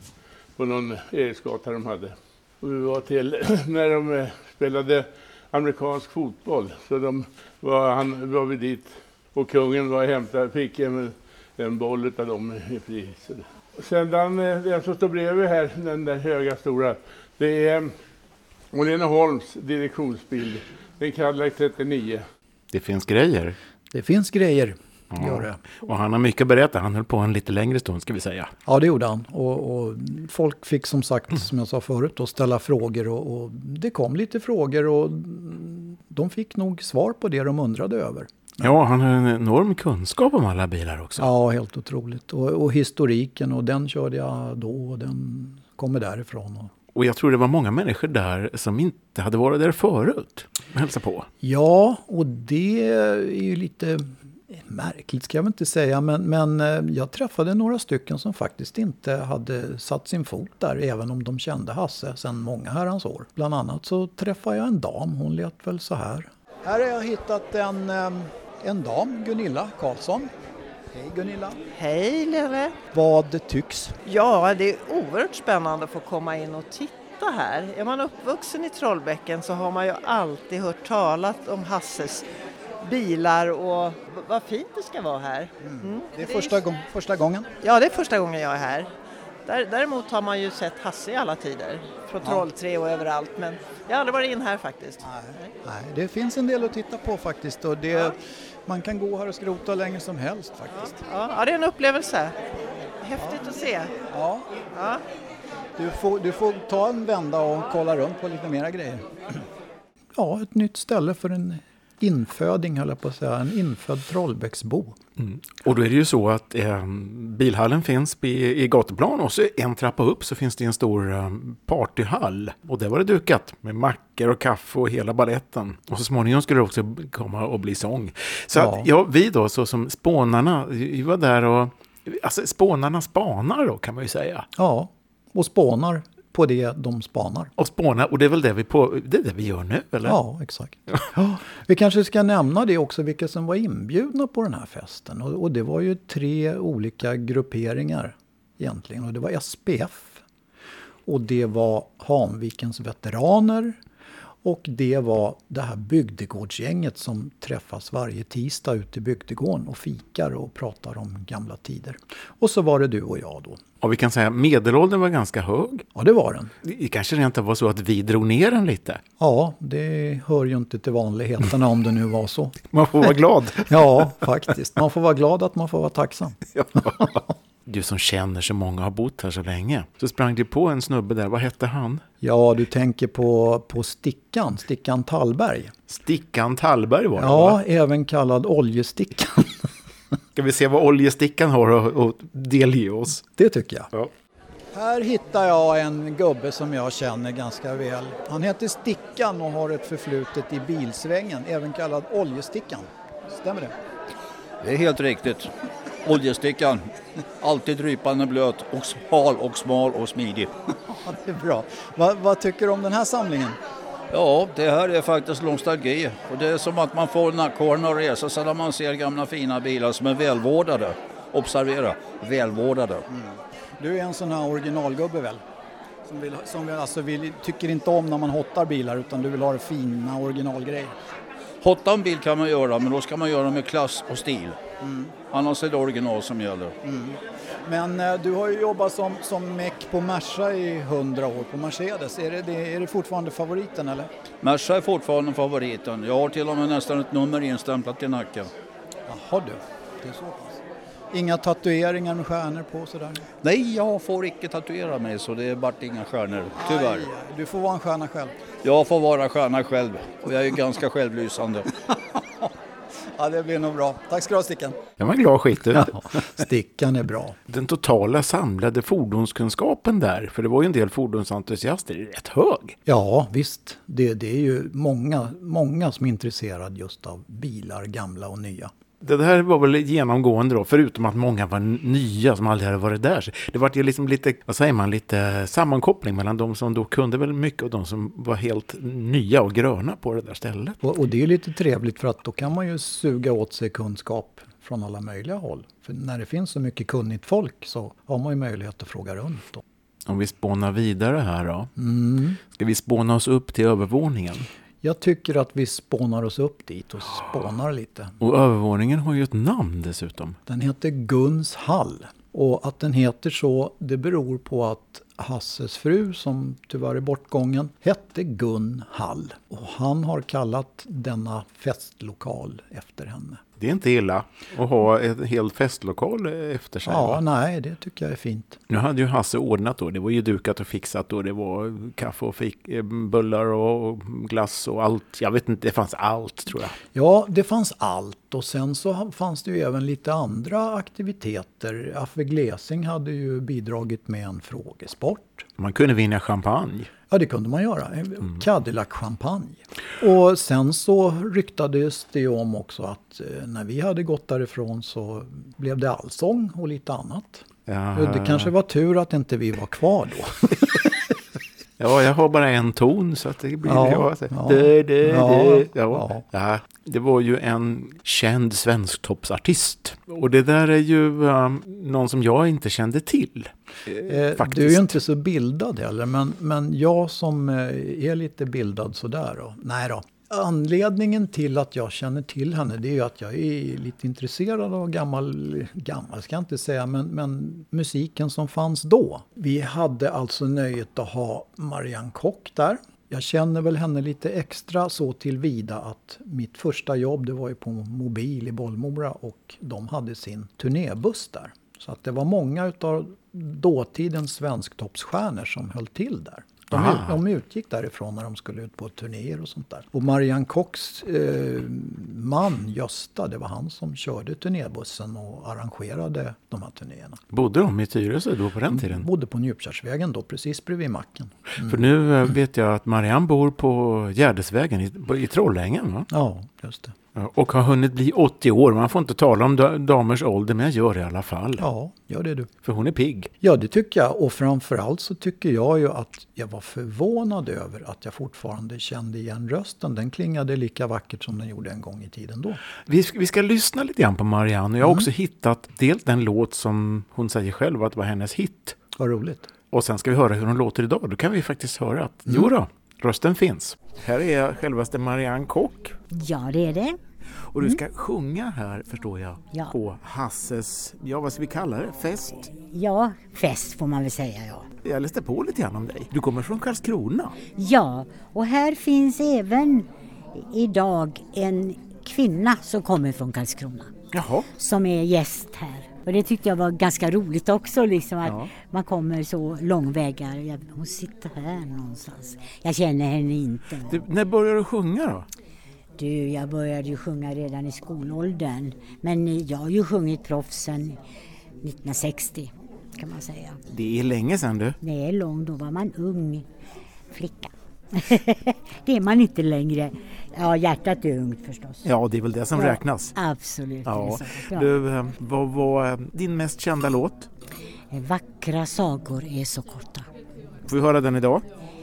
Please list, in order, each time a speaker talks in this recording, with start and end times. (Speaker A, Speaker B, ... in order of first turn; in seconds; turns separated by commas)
Speaker A: 0.6-17.9, Speaker A: 18.7-22.2, Speaker B: 22.7-23.6, Speaker C: 23.9-25.6, Speaker B: 25.1-28.5, Speaker C: 28.6-38.6, Speaker B: 38.6-41.3, Speaker C: 41.2-46.7, Speaker B: 46.9-51.3, Speaker C: 51.4-70.3, Speaker C: 70.9-71.6, Speaker D: 71.7-72.8, Speaker C: 72.9-74.0, Speaker D: 74.0-82.3, Speaker D: 82.8-86.6, Speaker C: 85.6-87.5, Speaker D: 87.6-88.9, Speaker D: 89.5-95.5, Speaker C: 95.0-101.0, Speaker D: 100.8-102.4, Speaker D: 103.0-103.9, Speaker C: 104.1-104.5, Speaker D: 104.7-105.0, Speaker C: 105.8-109.4, Speaker C: 110.2-115.0, Speaker B: 115.2-134.5, Speaker C: 128.5-128.9, Speaker C: 134.6-137.5, Speaker B: 137.6-140.2, Speaker C: 140.0-150.2, Speaker C: 151.1-153.8, Speaker C: 154.4-163.6, Speaker B: 163.8-165.8, Speaker C: 165.9-166.5, Speaker B: 166.6-169.0, Speaker C: 169.2-172.6, Speaker B: 172.7-173.7, Speaker C: 173.7-177.2, Speaker B: 176.5-182.0, Speaker C: 182.2-185.7, Speaker B: 185.9-187.6, Speaker C: 187.2-189.5, Speaker B: 190.3-193.2, Speaker C: 193.3-193.9, Speaker C: 194.7-203.7, Speaker E: 204.6-205.5, Speaker E: 206.0-206.9, Speaker E: 207.4-210.5, Speaker C: 210.9-213.6, Speaker E: 214.1-223.0, Speaker C: 223.1-225.4, Speaker C: 226.1-230.9, Speaker E: 231.6-234.6, Speaker C: 234.8-235.1, Speaker E: 235.3-236.7, Speaker C: 236.8-244.1, Speaker E: 244.4-248.5, Speaker C: 249.1-253.2, Speaker E: 253.4-257.1, Speaker C: 256.5-258.4, Speaker E: 258.6-261.7, Speaker C: 261.9-262.5, Speaker C: 263.1-264.8, Speaker B: 265.0-266.0, Speaker C: 265.7-267.4, Speaker B: 267.5-272.8, Speaker C: 272.9-278.7, Speaker B: 279.0-290.8, Speaker C: 290.8-299.6, Speaker B: 300.1-301.7, Speaker C: 301.8-302.4, Speaker B: 302.5-304.5, Speaker C: 304.8-308.1, Speaker B: 308.2-310.4, Speaker C: 310.5-323.4, Speaker B: 323.6-327.2, Speaker C: 326.8-328.6, Speaker B: 328.7-336.8, Speaker C: 336.9-345.4, Speaker B: 345.6-346.9, Speaker C: 347.1-361.0, Speaker B: 357.7-358.5, Speaker B: 361.8-374.9, Speaker C: 363.6-366.2, Speaker C: 374.1-417.2, Speaker B: 406.7-407.2, Speaker B: 417.3-419.1, Speaker C: 418.7-421.8, Speaker B: 421.6-426.1, Speaker C: 426.1-426.9, Speaker B: 427.1-431.7, Speaker C: 431.6-432.5, Speaker B: 432.6-433.3, Speaker C: 433.4-442.6, Speaker B: 442.9-448.8, Speaker C: 449.0-449.5, Speaker B: 449.7-455.9, Speaker F: 456.1-457.0, Speaker B: 457.5-462.5, Speaker F: 462.6-464.7, Speaker B: 464.8-467.4, Speaker F: 467.6-473.9, Speaker B: 474.1-474.5, Speaker F: 474.5-484.0, Speaker B: 478.2-478.5, Speaker B: 483.9-485.3, Speaker F: 486.0-491.0, Speaker F: 491.6-493.6, Speaker B: 493.7-494.8, Speaker F: 494.8-496.4, Speaker F: 497.1-501.8, Speaker B: 501.8-503.1, Speaker F: 502.5-504.8, Speaker B: 503.8-507.3, Speaker F: 507.9-510.1, Speaker B: 510.6-511.4